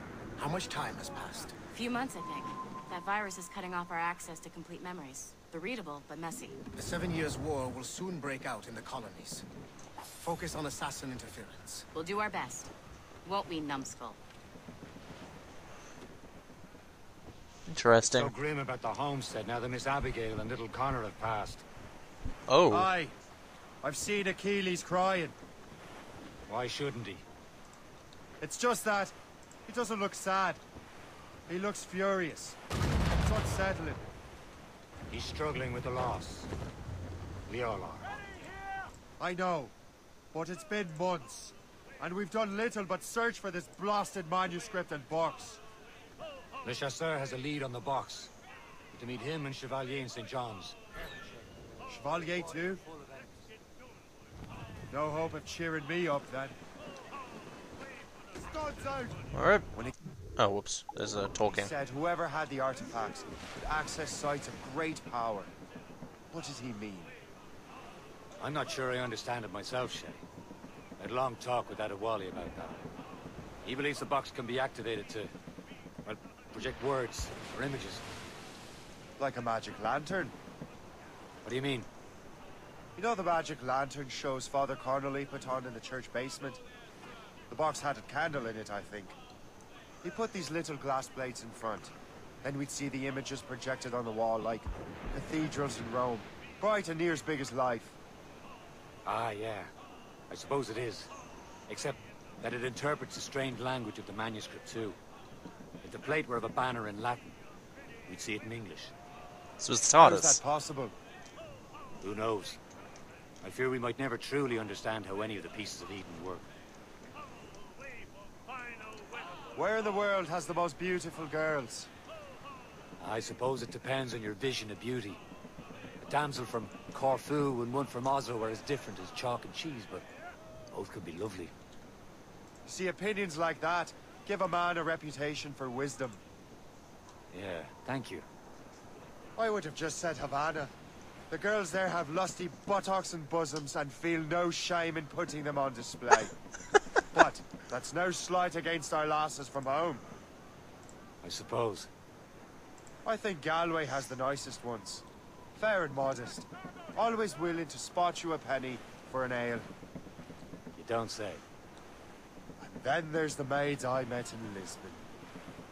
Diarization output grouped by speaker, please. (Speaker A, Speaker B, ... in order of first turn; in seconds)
Speaker A: 0.4-1.6, 6.7-9.4, 10.2-11.9
Speaker B: 1.7-6.6, 11.9-12.7, 13.2-14.2
Speaker C: 17.7-18.3, 22.5-22.9, 59.3-59.6, 60.4-61.7, 109.6-110.4
Speaker D: 18.0-21.6, 26.5-27.2, 35.1-36.5, 37.5-38.1, 46.6-48.3, 48.9-51.4, 52.4-53.5, 68.4-70.2, 71.0-72.8, 73.6-75.3, 76.0-78.0, 81.4-81.9, 99.0-99.7, 100.3-101.1, 101.7-105.0, 105.8-107.4, 108.1-108.9, 112.0-112.6, 113.4-116.5, 123.0-125.2, 126.0-130.1, 130.7-131.5, 137.3-138.3, 151.2-151.9, 160.7-161.4
Speaker E: 22.7-23.1, 23.8-25.4, 28.4-29.1, 29.7-30.6, 31.5-32.6, 33.2-34.1, 39.2-39.7, 40.3-45.6, 51.9-52.8, 54.9-56.6, 58.4-59.9, 61.5-65.5, 66.3-67.1, 79.2-80.3, 83.0-86.6, 87.5-89.2, 90.0-98.0, 110.0-111.0, 119.5-121.9, 132.7-136.2, 139.4-140.7, 141.3-146.4, 147.1-150.1, 153.1-155.0, 155.6-159.7, 162.6-165.0